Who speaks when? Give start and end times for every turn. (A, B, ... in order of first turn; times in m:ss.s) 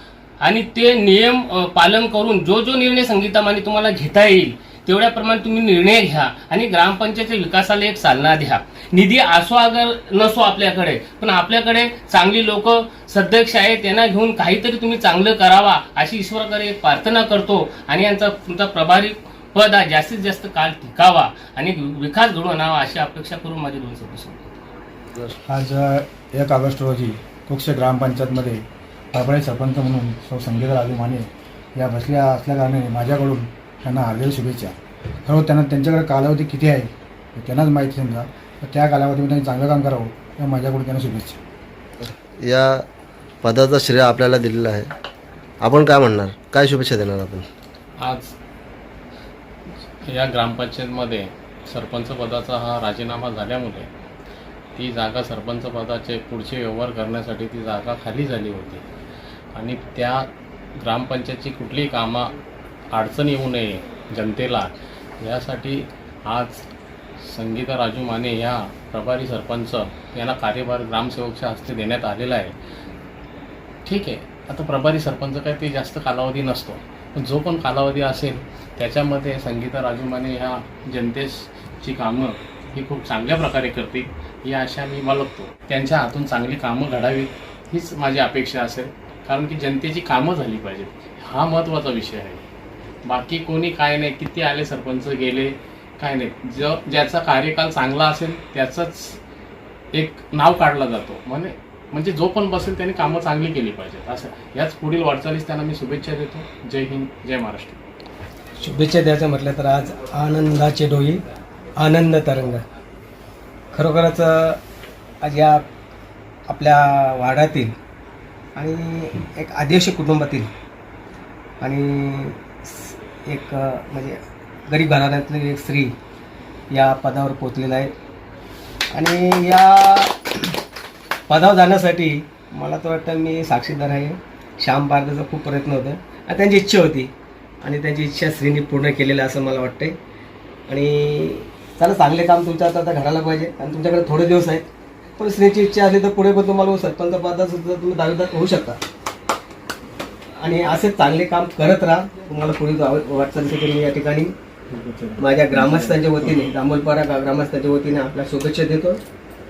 0:00.4-0:24.5 A
0:25.4-0:41.4 B
0:42.4-0:42.8 C
0:43.4-0:44.9 C
0:45.6-0:47.5 C
0:48.0-0:48.3 D
0:50.0-0:53.9 D
0:54.8-0:58.8 D
0:59.6-1:00.3 D
1:00.8-1:02.3 D
1:02.9-1:06.7 D
1:07.3-1:12.6 D
1:13.9-1:32.4 D
1:33.1-1:39.2 D
1:39.9-1:47.8 D
1:48.6-1:51.2 E
1:51.8-1:52.6 E
1:53.7-1:54.6 E
1:55.2-1:55.6 E
1:56.5-1:57.8 E
1:58.6-2:00.5 E
2:01.6-2:06.0 E
2:06.7-2:07.9 E
2:08.9-2:10.6 E
2:11.3-2:20.0 E
2:20.7-2:24.6 E
2:25.2-2:28.8 E
2:30.4-2:34.4 E
2:34.7-2:36.4 D
2:35.2-2:39.0 E